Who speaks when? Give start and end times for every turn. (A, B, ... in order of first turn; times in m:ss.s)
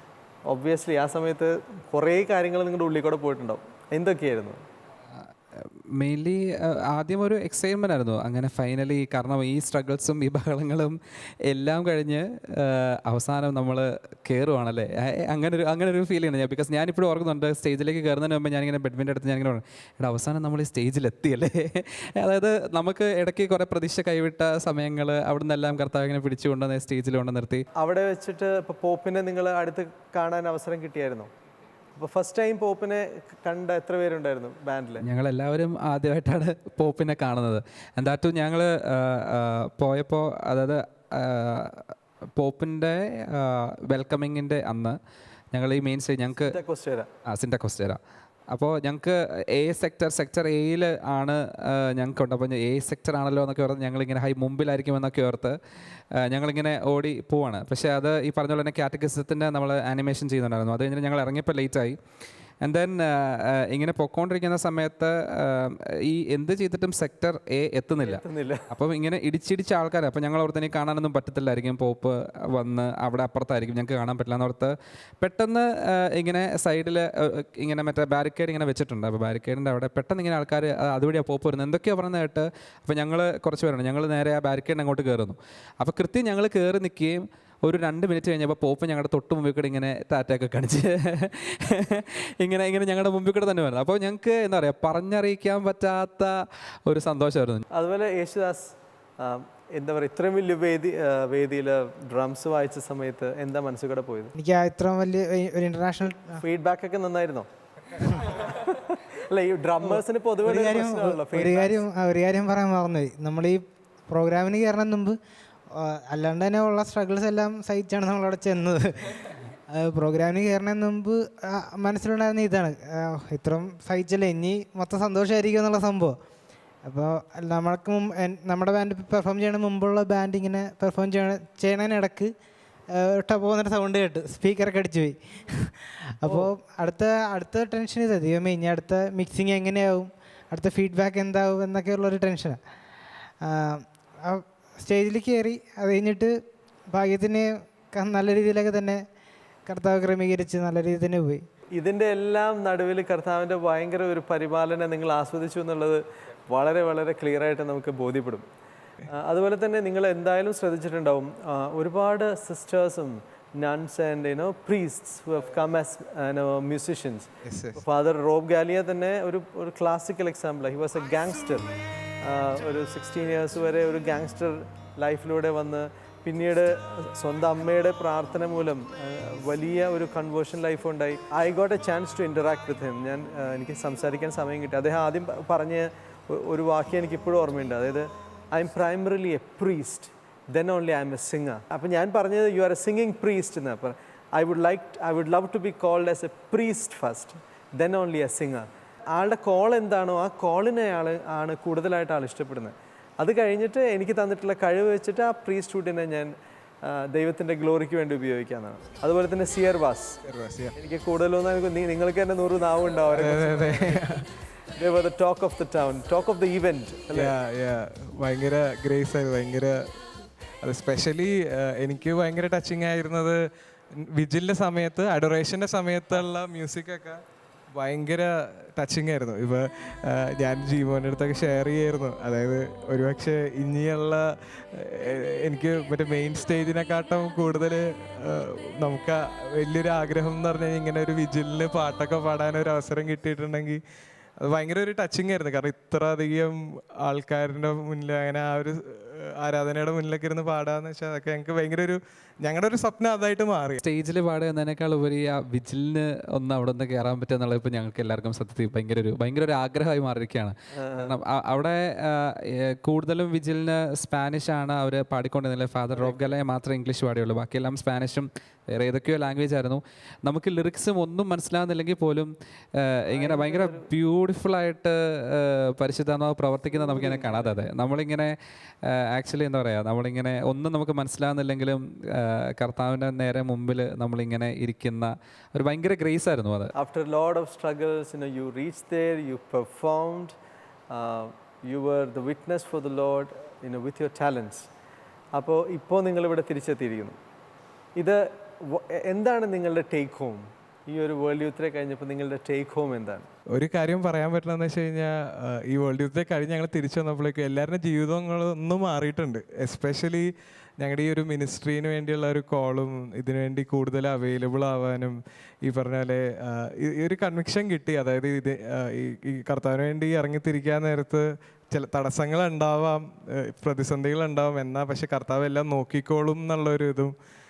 0:00.5-0:04.6 A
0:05.6-0:11.0 B
0:11.5-0:27.6 B
0:27.8-0:31.3 A
0:32.0-0:35.0 A
0:35.0-0:45.0 B
0:45.5-0:46.6 B
0:46.4-0:47.1 A
0:47.2-0:48.0 B
0:48.5-0:55.6 B
0:56.2-1:02.0 B
1:02.6-1:36.3 B
1:08.0-1:08.7 A
1:36.9-1:37.6 B
1:37.7-1:44.4 A
1:44.4-1:46.4 C
1:46.4-1:47.5 A
1:48.0-1:51.8 A
1:49.8-1:55.2 C
1:55.7-2:06.2 C
2:06.8-2:12.3 C
2:12.9-2:22.6 C
2:23.4-2:29.0 C
2:29.7-2:31.4 C
2:31.7-2:38.5 A
2:39.1-3:30.2 A
2:47.4-2:47.8 D
3:30.2-3:30.8 D
3:30.8-3:34.2 A
3:33.1-3:34.2 D
3:34.8-3:37.4 A
3:37.1-3:40.0 D
3:40.6-3:43.4 D
3:43.9-3:47.2 D
3:47.8-4:03.8 D
4:04.4-4:13.8 D
4:13.8-4:38.3 B
4:20.8-4:21.2 A
4:26.0-4:26.2 A
4:33.1-4:33.9 A
4:36.8-4:37.6 A
4:38.9-4:46.7 B
4:46.8-4:50.4 A
4:50.9-4:54.7 A
4:55.3-4:57.2 A
4:58.0-5:03.3 A
5:03.5-5:27.1 D